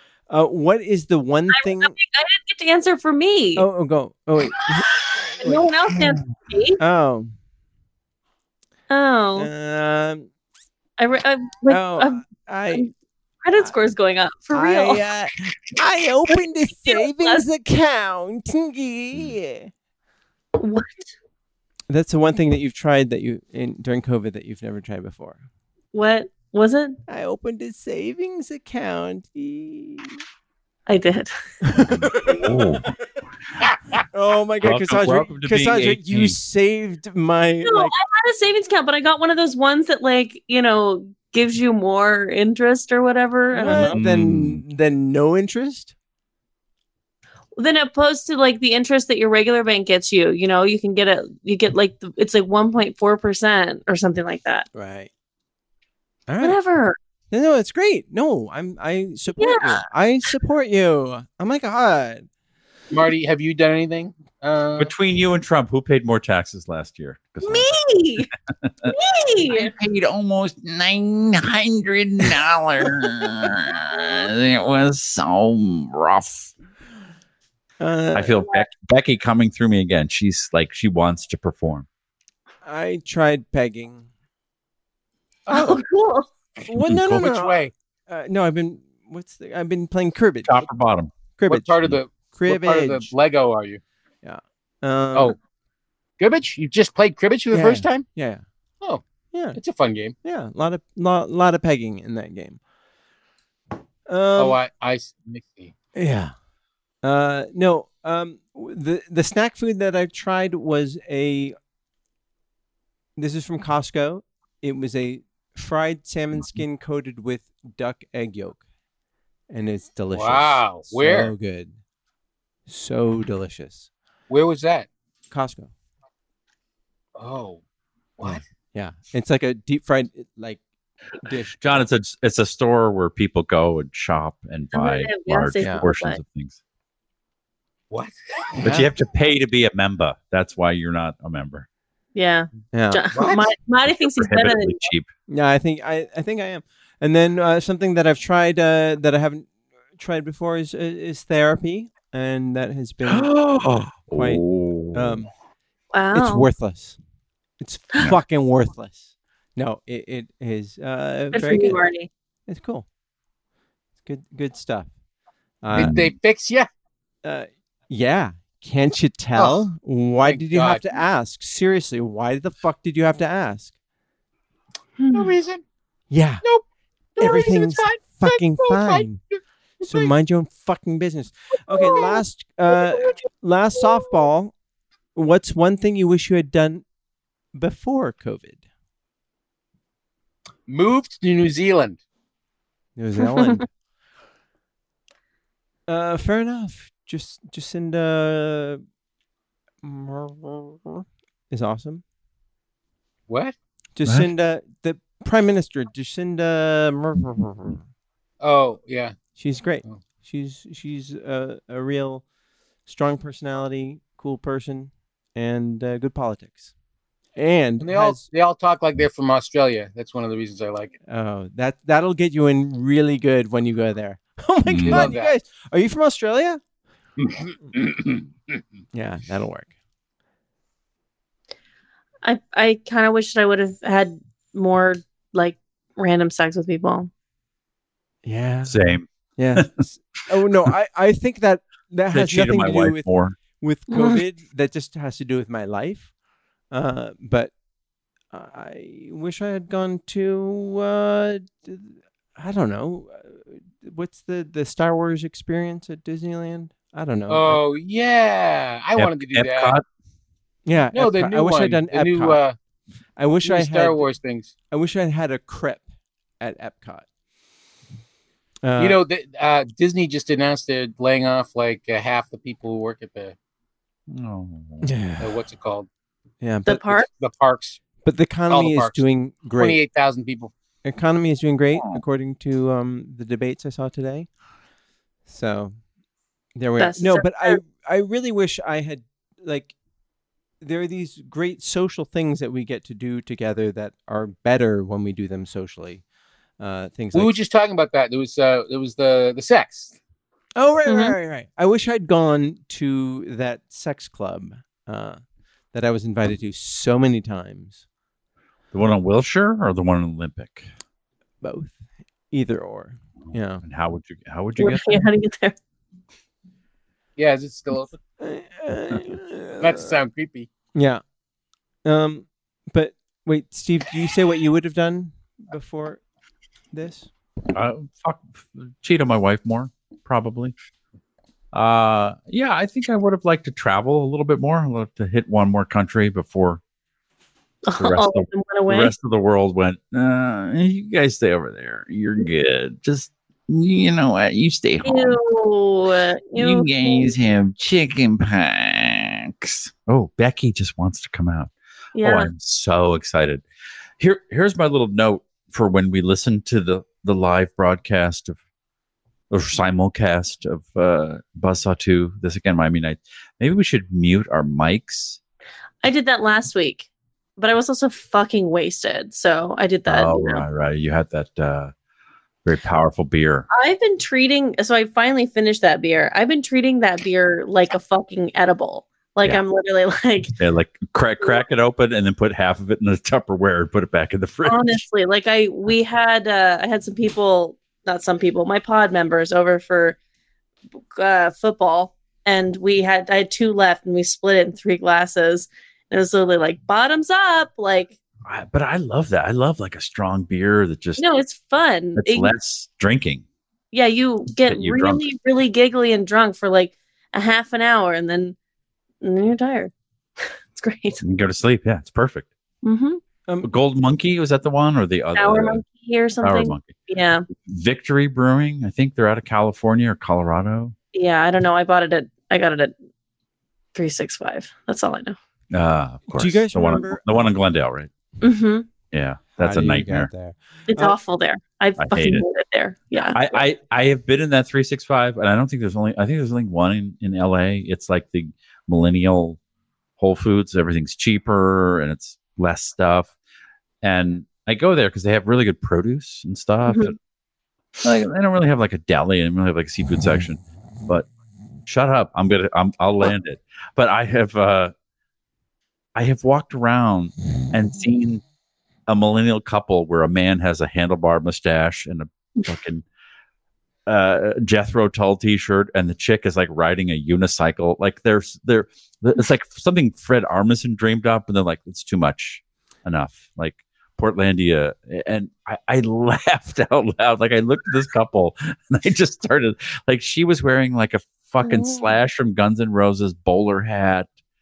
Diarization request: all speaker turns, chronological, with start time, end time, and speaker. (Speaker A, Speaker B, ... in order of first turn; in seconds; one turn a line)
Speaker A: 0.3-1.9
Speaker B: 1.5-3.7
Speaker A: 3.5-5.6
Speaker B: 5.4-6.8
Speaker A: 6.8-7.3
Speaker B: 8.9-9.5
Speaker A: 9.3-10.3
Speaker B: 11.0-12.9
Speaker A: 11.7-12.9
Speaker B: 13.4-15.1
Speaker A: 14.5-19.7
Speaker B: 16.8-17.4
Speaker B: 20.6-21.1
Speaker A: 21.9-25.4
Speaker B: 25.9-27.0
Speaker A: 27.1-30.2
Speaker B: 30.9-31.3
Speaker A: 31.6-32.8
Speaker C: 31.9-32.9
Speaker A: 34.1-37.9
Speaker C: 34.6-36.4
Speaker B: 37.6-44.0
Speaker A: 43.5-45.9
Speaker C: 43.8-44.6
Speaker B: 47.5-54.6
Speaker A: 54.7-55.1
Speaker A: 56.3-56.6
Speaker B: 56.4-57.0
Speaker A: 57.3-62.2
Speaker B: 59.4-59.8
Speaker D: 62.9-64.9
Speaker C: 64.8-67.7
Speaker B: 67.4-68.3
Speaker C: 68.6-68.9
Speaker B: 68.8-69.7
Speaker C: 69.5-76.5
Speaker A: 77.8-78.4
Speaker C: 78.1-81.8
Speaker A: 82.6-84.1
Speaker D: 85.5-85.8
Speaker B: 85.5-86.3
Speaker A: 86.7-90.7
Speaker C: 86.8-87.2
Speaker D: 87.0-87.7
Speaker C: 90.4-91.1
Speaker A: 91.4-93.1
Speaker D: 91.5-93.8
Speaker A: 94.2-95.3
Speaker D: 96.2-98.1
Speaker A: 97.5-98.4
Speaker A: 99.3-99.6
Speaker D: 99.5-100.2
Speaker A: 100.2-102.6
Speaker A: 104.1-104.6
Speaker D: 104.3-105.7
Speaker A: 105.9-106.3
Speaker A: 107.0-111.5
Speaker A: 113.2-118.6
Speaker A: 119.5-121.7
Speaker D: 120.1-121.3
Speaker A: 122.7-123.9
Speaker D: 124.3-124.9
Speaker A: 125.3-125.7
Speaker D: 127.2-127.6
Speaker A: 128.2-130.6
Speaker A: 131.2-131.8
Speaker C: 131.6-136.6
Speaker B: 134.7-136.2
Speaker A: 135.6-135.8
Speaker D: 137.9-138.8
Speaker C: 138.6-141.7
Speaker B: 142.1-144.9
Speaker A: 142.7-143.1
Speaker D: 143.1-143.5
Speaker C: 143.9-145.1
Speaker A: 145.3-153.3
Speaker C: 153.0-155.2
Speaker A: 154.1-155.3
Speaker B: 155.9-156.5
Speaker A: 156.1-157.0
Speaker A: 157.6-161.8
Speaker B: 161.3-162.1
Speaker A: 162.5-162.8
Speaker A: 164.0-164.9
Speaker A: 165.6-166.0
Speaker D: 165.7-166.7
Speaker C: 165.7-166.1
Speaker A: 167.2-173.7
Speaker D: 169.3-169.6
Speaker D: 170.2-171.0
Speaker B: 175.0-175.3
Speaker D: 175.1-175.6
Speaker A: 176.1-176.4
Speaker D: 177.2-180.1
Speaker A: 177.2-179.2
Speaker A: 179.8-184.5
Speaker D: 181.8-182.1
Speaker A: 185.1-186.8
Speaker A: 187.5-188.6
Speaker D: 190.7-192.0
Speaker A: 192.9-193.7
Speaker B: 193.2-193.6
Speaker A: 195.9-198.8
Speaker A: 199.8-202.0
Speaker D: 203.3-203.5
Speaker A: 203.9-207.8
Speaker D: 208.4-209.2
Speaker A: 209.3-212.2
Speaker A: 212.8-216.7
Speaker A: 217.3-218.2
Speaker D: 217.8-220.9
Speaker A: 221.1-226.6
Speaker C: 224.7-225.1
Speaker D: 224.8-225.3
Speaker D: 227.2-228.2
Speaker A: 228.9-229.7
Speaker B: 232.2-237.1
Speaker A: 238.2-238.8
Speaker C: 238.7-239.8
Speaker A: 239.4-246.1
Speaker C: 242.1-243.4
Speaker B: 243.9-244.2
Speaker A: 246.7-247.5
Speaker A: 248.3-257.6
Speaker D: 257.3-259.8
Speaker C: 258.9-259.8
Speaker A: 260.6-262.4
Speaker D: 260.9-262.6
Speaker A: 263.2-264.1
Speaker D: 263.4-264.5
Speaker A: 264.7-265.9
Speaker A: 266.4-267.0
Speaker A: 268.6-269.0
Speaker D: 268.8-273.3
Speaker C: 274.1-274.9
Speaker A: 274.8-275.4
Speaker D: 275.2-275.9
Speaker A: 276.4-276.9
Speaker B: 276.6-277.1
Speaker D: 277.0-277.8
Speaker A: 278.0-279.8
Speaker D: 278.5-280.5
Speaker A: 280.8-284.3
Speaker C: 281.8-282.0
Speaker A: 285.3-285.8
Speaker A: 286.6-289.7
Speaker B: 286.8-287.6
Speaker A: 290.6-296.0
Speaker A: 296.6-297.3
Speaker D: 297.1-299.9
Speaker A: 300.6-305.2
Speaker B: 300.9-301.1
Speaker A: 305.7-307.8
Speaker C: 308.7-310.7
Speaker A: 311.4-313.6
Speaker C: 313.6-315.0
Speaker B: 314.6-315.6
Speaker D: 317.2-318.0
Speaker A: 318.2-319.9
Speaker D: 319.6-320.5
Speaker A: 320.7-321.0
Speaker A: 321.8-326.0
Speaker A: 326.7-327.1
Speaker C: 327.5-330.5
Speaker C: 331.5-336.6
Speaker B: 337.6-338.9
Speaker C: 337.8-345.2
Speaker B: 344.8-347.1
Speaker C: 346.4-353.4
Speaker B: 351.9-352.3
Speaker C: 354.0-358.4
Speaker C: 359.3-365.2
Speaker B: 365.8-370.4
Speaker C: 369.9-371.7
Speaker C: 372.4-373.5
Speaker B: 373.5-380.3
Speaker C: 380.4-384.8
Speaker B: 384.4-390.0
Speaker B: 390.9-397.9
Speaker C: 398.2-401.0
Speaker B: 401.0-402.3
Speaker C: 401.9-403.2
Speaker B: 403.7-408.4
Speaker C: 404.5-405.1
Speaker B: 409.0-409.7
Speaker B: 410.2-411.0
Speaker C: 411.0-412.3
Speaker B: 412.6-413.0
Speaker C: 413.4-415.6
Speaker B: 415.1-417.2
Speaker C: 416.2-416.7
Speaker C: 417.4-420.7
Speaker B: 420.9-422.7
Speaker B: 423.7-425.2
Speaker C: 425.5-427.9
Speaker A: 426.1-427.0
Speaker B: 428.2-428.7
Speaker C: 428.9-430.1
Speaker A: 429.4-430.4
Speaker B: 430.7-433.2
Speaker C: 431.8-432.2
Speaker C: 433.1-439.4
Speaker C: 440.0-443.1
Speaker C: 443.8-447.0
Speaker B: 446.7-446.9
Speaker C: 447.8-451.1
Speaker C: 451.6-454.7
Speaker C: 455.9-458.2
Speaker C: 458.9-462.8
Speaker C: 463.9-484.1
Speaker B: 481.4-481.8